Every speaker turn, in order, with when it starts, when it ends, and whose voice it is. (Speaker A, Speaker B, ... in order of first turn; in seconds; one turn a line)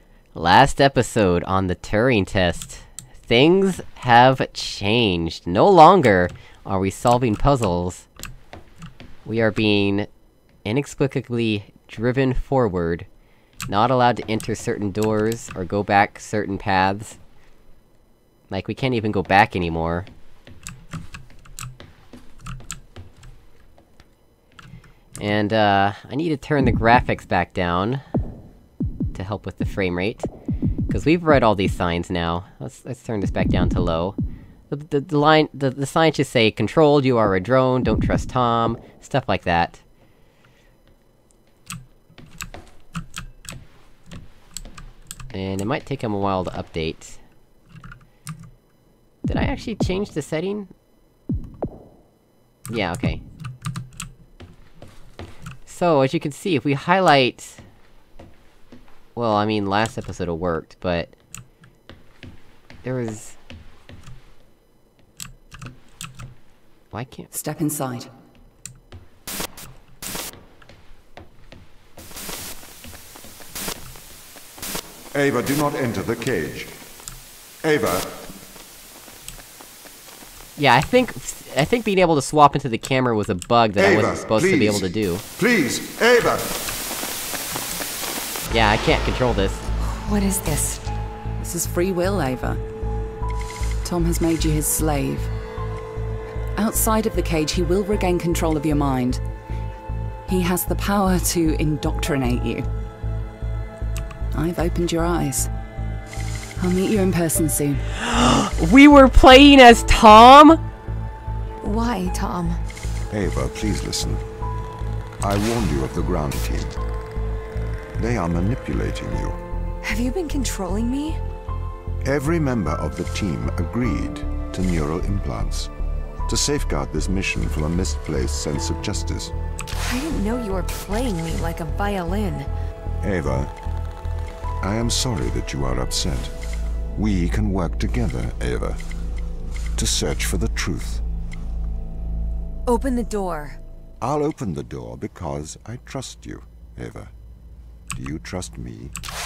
Speaker A: 0.3-8.1
Speaker A: 9.2-10.1
Speaker A: 10.6-13.1
Speaker A: 13.7-17.2
Speaker A: 18.5-20.1
Speaker A: 25.2-28.0
Speaker A: 29.1-30.3
Speaker A: 30.9-34.1
Speaker A: 34.7-39.8
Speaker A: 45.3-47.2
Speaker A: 49.3-50.7
Speaker A: 52.7-53.2
Speaker A: 55.7-57.6
Speaker A: 59.1-61.1
Speaker A: 62.8-63.4
Speaker A: 66.9-67.3
Speaker B: 67.3-68.1
Speaker C: 75.1-76.8
Speaker C: 77.6-78.2
Speaker A: 80.6-85.2
Speaker C: 83.8-86.6
Speaker A: 88.5-89.6
Speaker D: 89.8-90.8
Speaker B: 91.4-92.6
Speaker B: 93.8-95.3
Speaker B: 96.6-99.2
Speaker B: 100.3-102.7
Speaker B: 104.3-105.5
Speaker B: 106.6-107.8
Speaker A: 107.9-110.6
Speaker D: 111.6-112.6
Speaker C: 113.1-114.2
Speaker C: 115.2-116.8
Speaker C: 118.0-119.4
Speaker D: 119.8-121.2
Speaker C: 122.0-125.7
Speaker C: 126.3-129.3
Speaker D: 129.8-132.5
Speaker C: 133.0-133.5
Speaker C: 134.6-136.3
Speaker C: 136.9-138.8
Speaker C: 139.8-141.0
Speaker D: 142.7-143.6
Speaker C: 144.0-147.1
Speaker C: 147.9-148.9